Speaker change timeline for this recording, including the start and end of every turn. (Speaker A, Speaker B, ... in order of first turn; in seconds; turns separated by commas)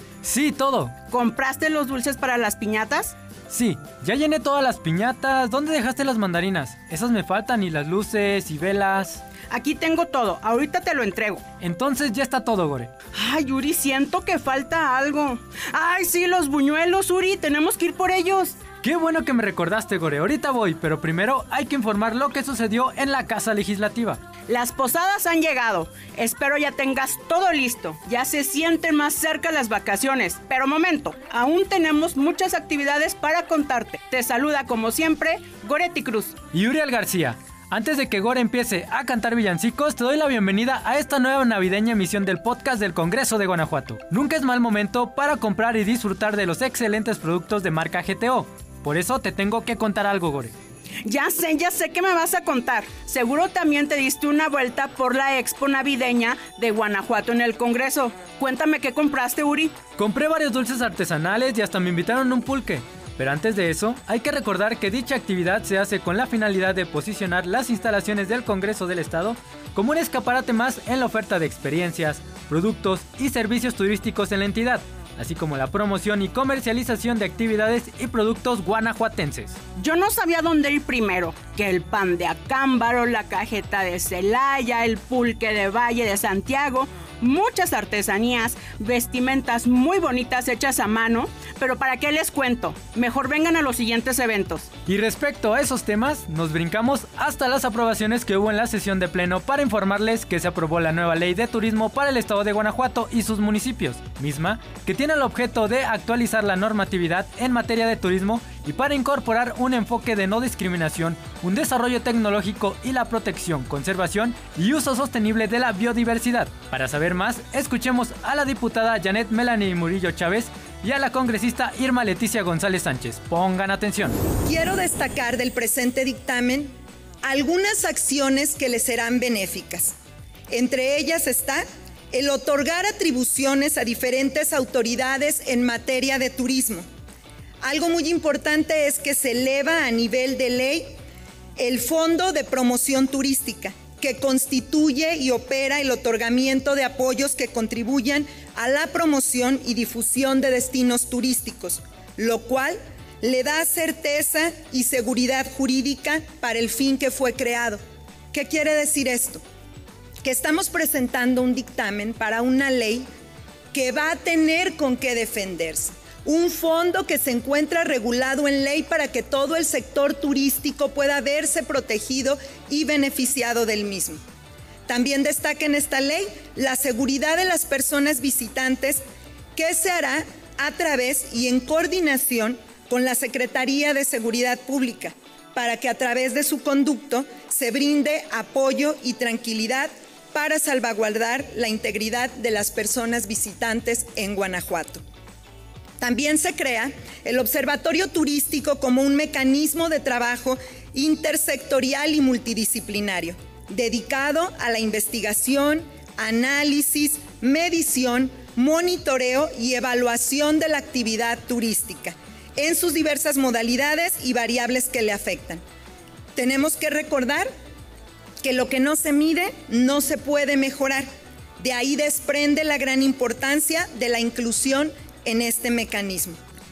Speaker A: 0.2-0.9, Speaker B: 1.1-3.1, Speaker A: 3.5-9.2, Speaker B: 9.5-11.4, Speaker A: 11.6-12.9, Speaker B: 13.1-18.6, Speaker A: 18.8-24.2, Speaker B: 24.5-36.3, Speaker A: 36.5-50.5, Speaker B: 51.0-59.7, Speaker A: 60.0-79.5, Speaker B: 79.8-94.7, Speaker A: 94.9-124.2, Speaker C: 124.5-126.7, Speaker C: 127.2-129.9, Speaker C: 130.5-136.8, Speaker C: 137.6-141.0, Speaker C: 141.6-157.8, Speaker C: 158.3-159.4, Speaker C: 160.2-163.1, Speaker C: 163.7-174.2, Speaker C: 174.9-179.0, Speaker C: 179.5-195.0, Speaker C: 196.0-215.6, Speaker C: 216.3-217.5, Speaker C: 218.4-221.1, Speaker C: 221.6-226.4